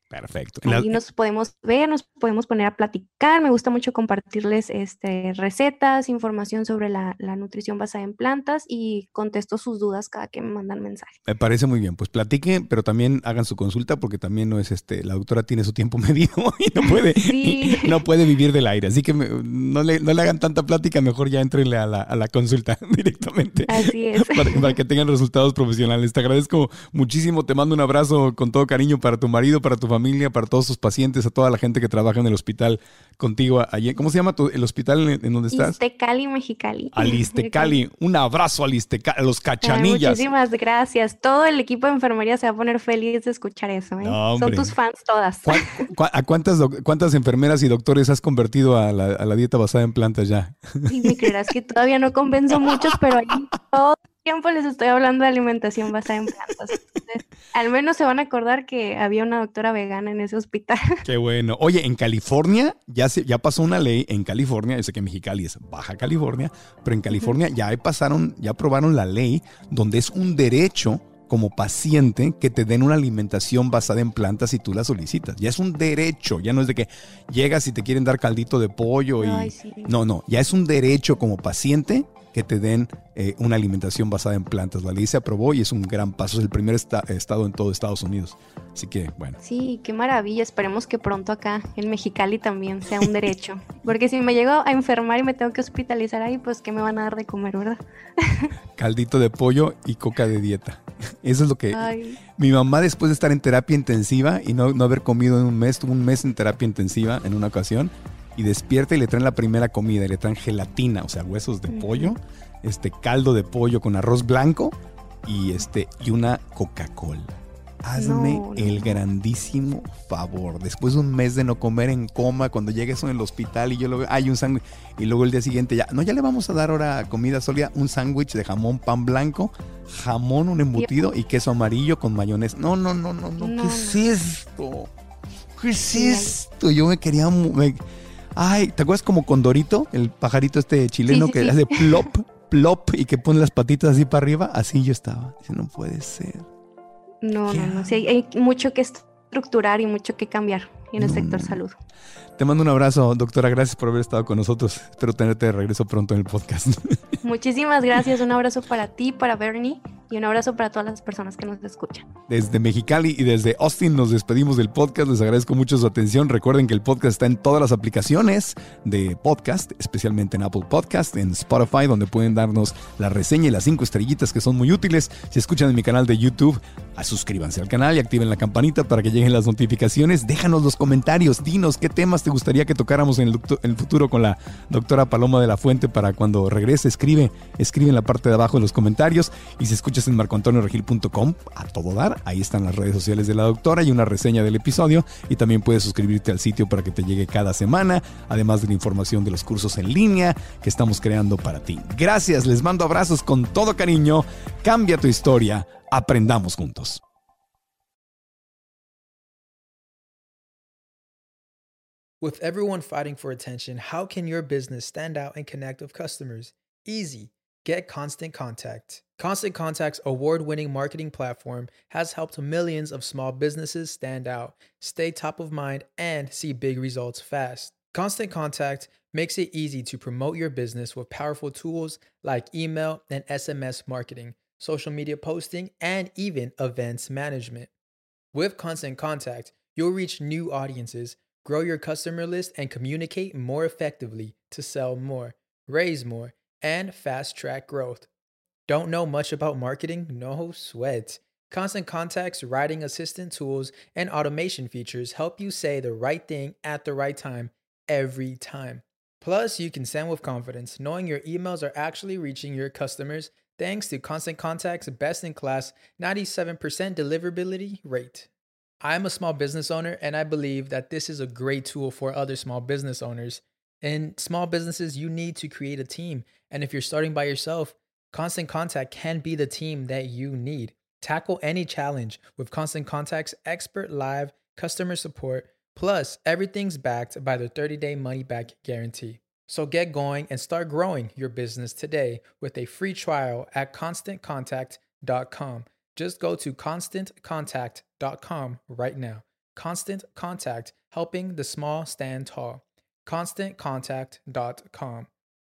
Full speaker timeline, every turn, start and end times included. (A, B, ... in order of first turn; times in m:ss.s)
0:00.1-0:00.9 A
0:00.6-0:11.1 B
0:11.3-0:35.8 A
0:17.2-0:18.0 B
0:23.7-0:24.8 B
0:35.5-0:37.8 B
0:36.9-0:40.2 A
0:39.6-0:45.9 B
0:44.0-0:44.8 A
0:45.4-0:51.3 A
0:50.9-1:01.0 B
0:52.6-0:53.0 A
1:01.0-1:29.4 A
1:19.2-1:19.9 B
1:29.4-1:38.5 B
1:38.8-2:14.9 A
1:41.7-1:42.2 B
1:51.7-1:52.2 B
1:58.0-1:59.0 B
2:10.8-2:11.1 B
2:13.4-2:14.0 B
2:15.6-2:17.8 A
2:15.9-2:16.4 B
2:18.4-2:26.5 A
2:21.1-2:22.0 B
2:27.2-2:31.8 B
2:27.5-2:27.9 A
2:31.0-2:31.6 A
2:32.4-2:37.0 A
2:37.2-2:42.1 B
2:42.3-3:27.0 A
3:32.2-3:57.7 C
3:58.3-4:08.1 C
4:08.7-4:28.3 C
4:28.8-5:05.1 C